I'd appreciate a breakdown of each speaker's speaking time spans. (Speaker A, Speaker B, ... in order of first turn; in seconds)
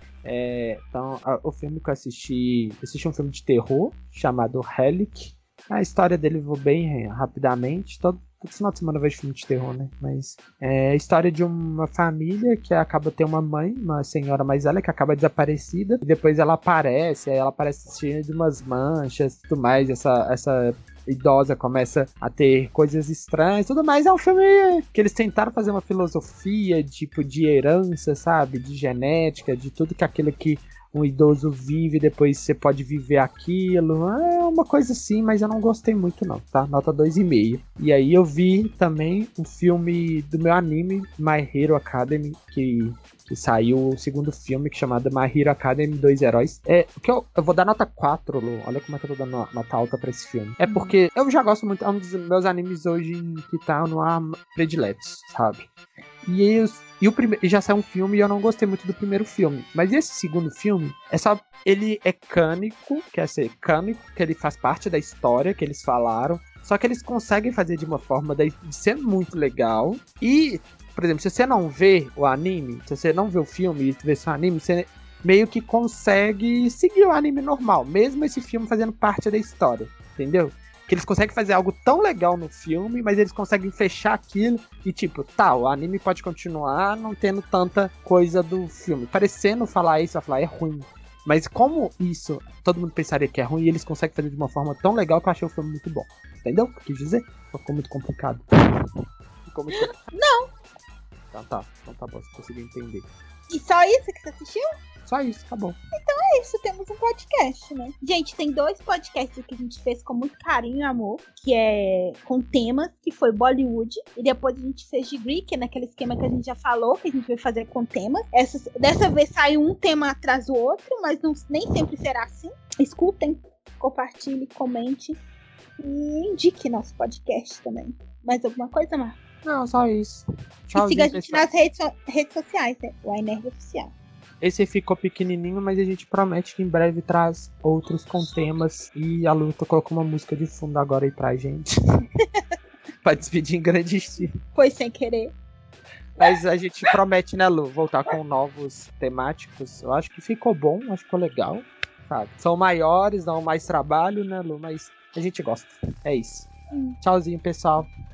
Speaker A: 0.2-55.6, 56.2-98.4, 99.5-99.9, 101.3-103.1, 105.0-105.8, 129.4-131.4, 134.4-141.7, 143.0-144.3, 146.2-156.5, 157.0-157.9
Speaker B: 50.6-50.9, 99.7-100.5, 103.5-104.6, 105.9-125.2, 125.8-129.2, 130.7-133.9, 144.5-145.3, 156.7-157.0